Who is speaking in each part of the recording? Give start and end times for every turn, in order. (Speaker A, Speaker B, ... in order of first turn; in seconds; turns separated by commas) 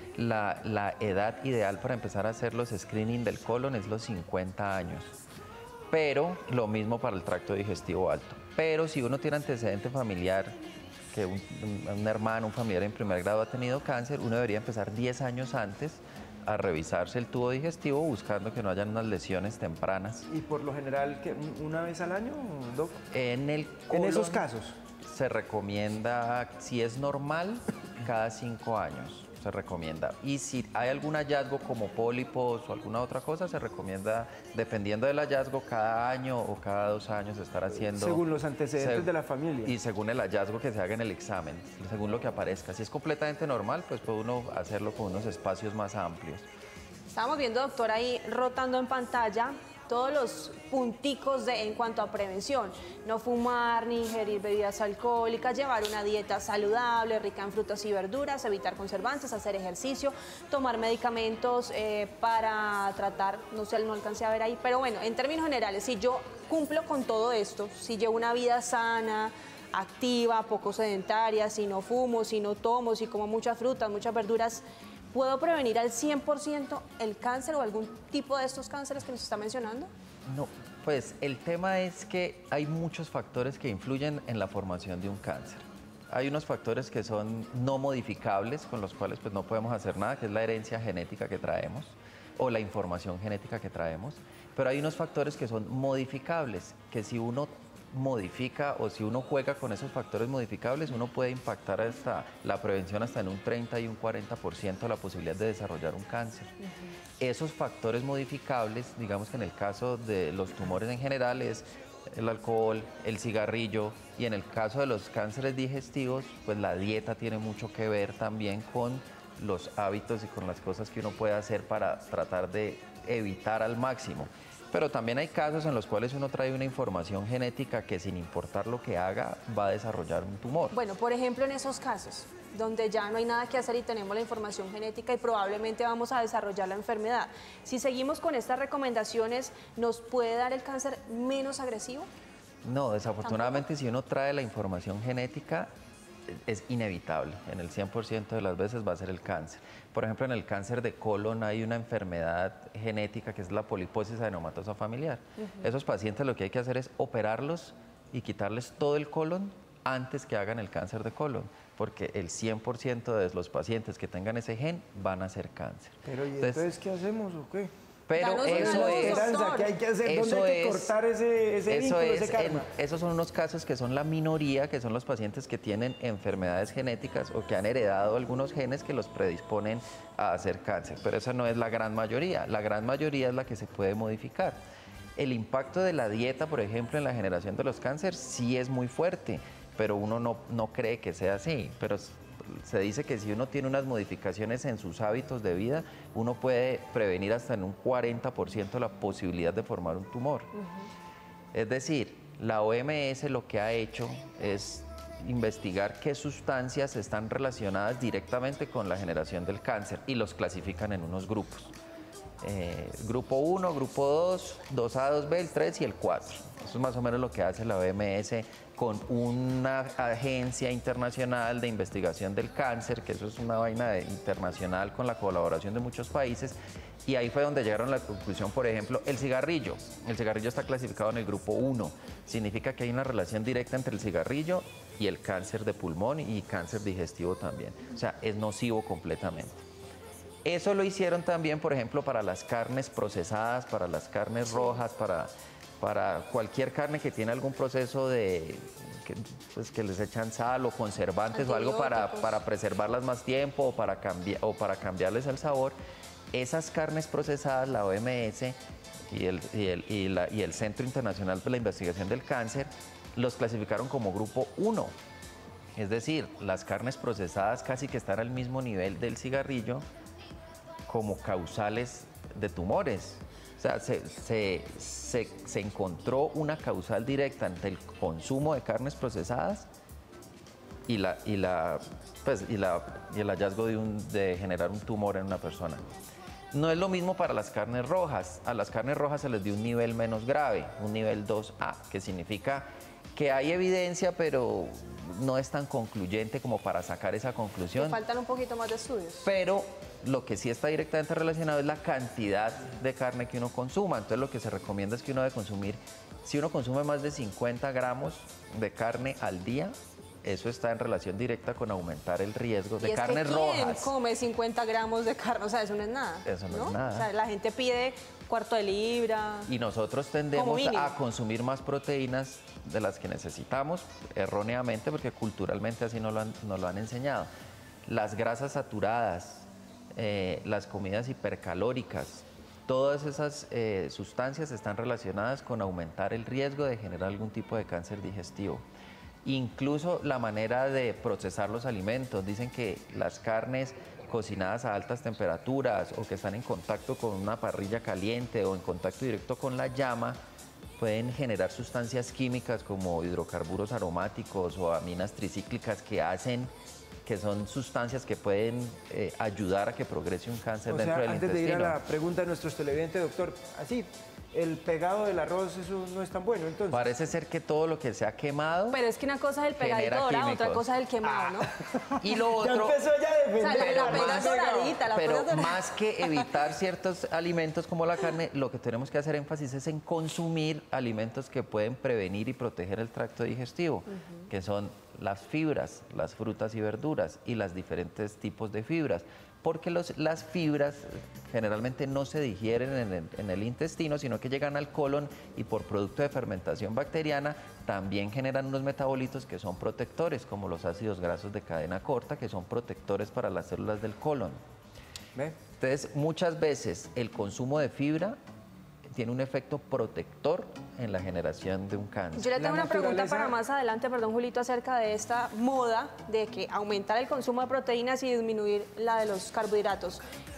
Speaker A: 0.1-5.1, Speaker A: 5.9-10.6, Speaker A: 11.1-20.3, Speaker B: 20.3-23.0, Speaker A: 23.1-24.4, Speaker B: 23.9-24.8, Speaker A: 25.0-38.2, Speaker B: 37.9-39.7, Speaker A: 38.8-39.1, Speaker A: 39.6-46.5, Speaker C: 47.1-79.9, Speaker A: 80.2-106.5, Speaker A: 107.2-130.7, Speaker C: 130.7-142.1, Speaker A: 142.6-145.7, Speaker C: 143.2-143.6, Speaker A: 146.3-166.6, Speaker B: 166.1-167.7, Speaker A: 168.1-169.3, Speaker C: 168.2-169.7, Speaker B: 168.4-172.7, Speaker A: 170.0-170.9, Speaker A: 171.7-184.6, Speaker A: 185.2-200.5, Speaker A: 201.5-211.7, Speaker A: 212.4-239.6, Speaker A: 240.4-255.7, Speaker C: 251.3-252.3, Speaker A: 256.3-258.6, Speaker A: 259.1-264.9, Speaker A: 265.8-269.8, Speaker A: 270.9-279.7, Speaker A: 280.9-285.8, Speaker A: 286.5-298.0, Speaker C: 297.8-299.3, Speaker A: 299.2-309.7, Speaker A: 310.2-313.9, Speaker C: 312.8-319.5, Speaker A: 316.2-317.1, Speaker A: 319.5-327.3, Speaker C: 320.3-320.9, Speaker A: 327.9-338.6, Speaker A: 339.2-350.2, Speaker A: 350.8-356.5, Speaker A: 357.1-361.8, Speaker B: 360.7-366.9, Speaker A: 366.7-368.8, Speaker C: 368.7-371.5, Speaker A: 369.6-370.6, Speaker B: 372.0-374.7, Speaker A: 372.0-372.8, Speaker C: 373.4-375.6, Speaker A: 373.5-404.4, Speaker A: 405.6-408.2, Speaker A: 408.9-412.3, Speaker C: 412.1-420.0, Speaker B: 412.4-413.3